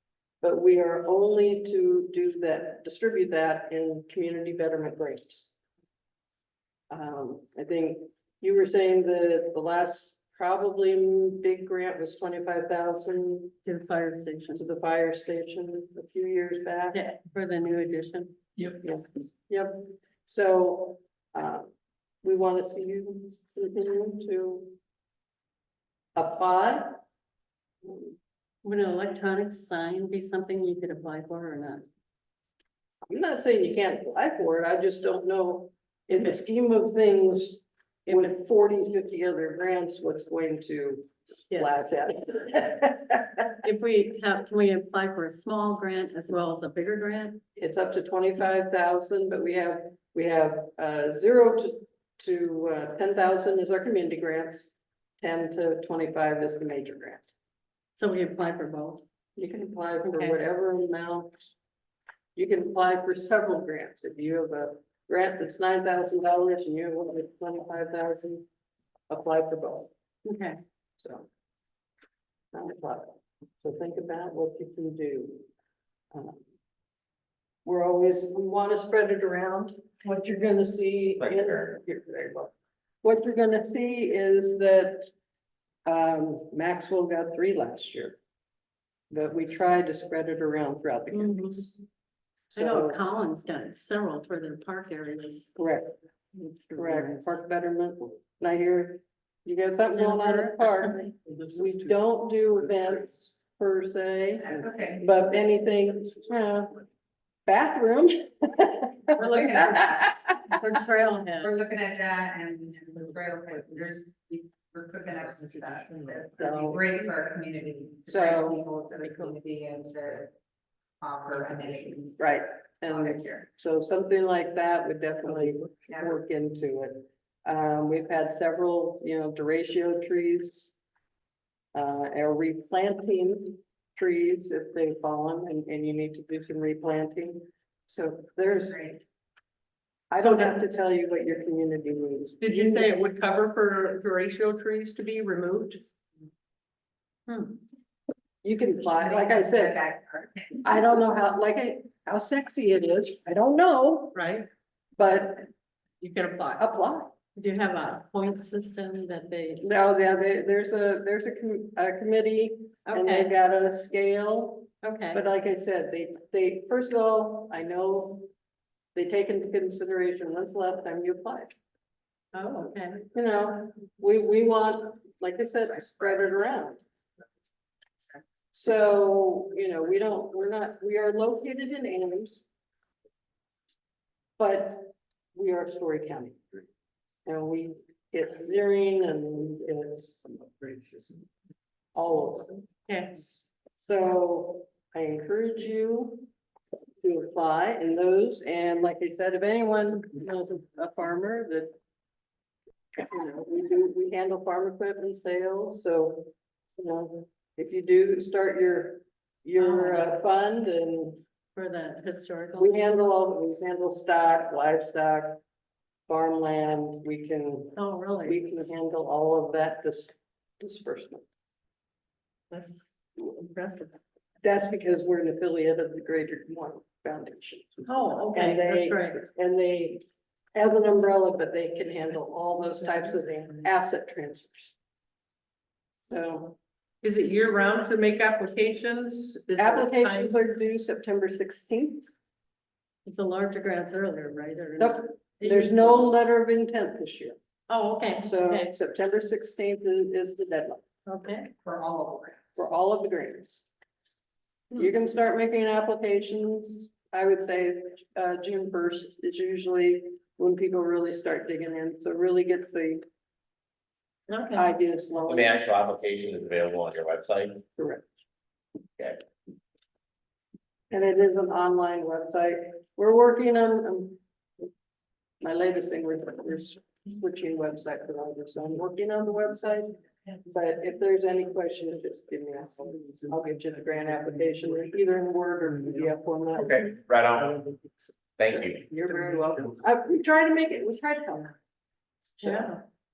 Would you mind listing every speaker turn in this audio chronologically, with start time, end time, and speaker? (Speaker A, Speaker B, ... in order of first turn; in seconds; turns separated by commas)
Speaker A: 0.4-5.6, Speaker A: 6.9-13.6, Speaker B: 13.7-14.7, Speaker A: 14.5-17.0, Speaker B: 16.9-18.4, Speaker A: 18.8-21.7, Speaker A: 22.2-24.8, Speaker A: 26.2-27.0, Speaker B: 28.6-31.9, Speaker A: 33.1-43.4, Speaker B: 38.1-38.4, Speaker B: 43.6-47.4, Speaker A: 47.6-57.3, Speaker B: 58.0-59.0, Speaker A: 59.4-61.5, Speaker B: 60.0-60.4, Speaker A: 62.4-68.4, Speaker A: 69.1-69.9, Speaker B: 70.2-70.6, Speaker A: 71.0-71.3, Speaker A: 72.5-75.5, Speaker A: 76.1-76.4, Speaker A: 77.7-85.1, Speaker C: 81.2-81.8, Speaker A: 85.9-88.2, Speaker A: 89.1-91.7, Speaker B: 91.1-91.7, Speaker A: 92.5-93.0, Speaker B: 92.5-95.6, Speaker A: 95.6-96.0, Speaker B: 96.3-97.4, Speaker A: 96.8-106.8, Speaker B: 99.9-101.2, Speaker D: 104.4-105.0, Speaker A: 107.5-110.4, Speaker B: 109.2-109.8, Speaker D: 109.2-110.5, Speaker B: 110.5-111.5, Speaker D: 111.4-120.3, Speaker A: 116.4-116.8, Speaker A: 118.1-118.6, Speaker D: 121.0-123.5, Speaker A: 122.2-130.7, Speaker D: 125.9-126.1, Speaker A: 131.7-139.0, Speaker A: 140.1-142.8, Speaker E: 142.4-145.8, Speaker B: 147.3-147.6, Speaker A: 148.4-149.8, Speaker D: 149.0-150.7, Speaker A: 150.6-154.2, Speaker E: 154.1-154.5, Speaker A: 155.0-155.5, Speaker E: 156.0-156.5, Speaker A: 156.4-157.1, Speaker B: 157.4-159.6, Speaker A: 159.6-168.3, Speaker B: 162.9-163.3, Speaker B: 164.8-165.2, Speaker A: 168.9-171.5, Speaker B: 172.3-173.0, Speaker A: 173.1-176.8, Speaker A: 178.5-182.4, Speaker A: 184.4-186.4, Speaker A: 187.3-190.8, Speaker A: 191.9-192.6, Speaker B: 192.9-193.2, Speaker A: 193.9-196.3, Speaker A: 197.0-201.7, Speaker A: 202.9-211.2, Speaker B: 209.6-210.2, Speaker B: 211.6-212.8, Speaker A: 212.6-215.4, Speaker A: 216.1-221.2, Speaker B: 217.8-218.6, Speaker B: 222.5-224.0, Speaker A: 224.4-234.7, Speaker B: 227.9-229.2, Speaker A: 236.1-236.6, Speaker E: 237.0-240.3, Speaker A: 239.6-242.1, Speaker B: 243.1-246.1, Speaker A: 244.8-247.4, Speaker B: 247.7-248.7, Speaker A: 248.2-250.8, Speaker B: 251.1-251.5, Speaker D: 251.6-252.6, Speaker A: 252.6-253.7, Speaker A: 254.7-263.0, Speaker B: 264.3-264.7, Speaker A: 264.6-265.6, Speaker C: 265.3-267.6, Speaker A: 267.8-268.1, Speaker C: 269.0-269.2, Speaker A: 270.9-274.2, Speaker A: 275.4-286.9, Speaker C: 286.6-287.6, Speaker C: 288.4-288.9, Speaker A: 288.9-291.6, Speaker A: 292.4-292.8, Speaker B: 292.4-292.8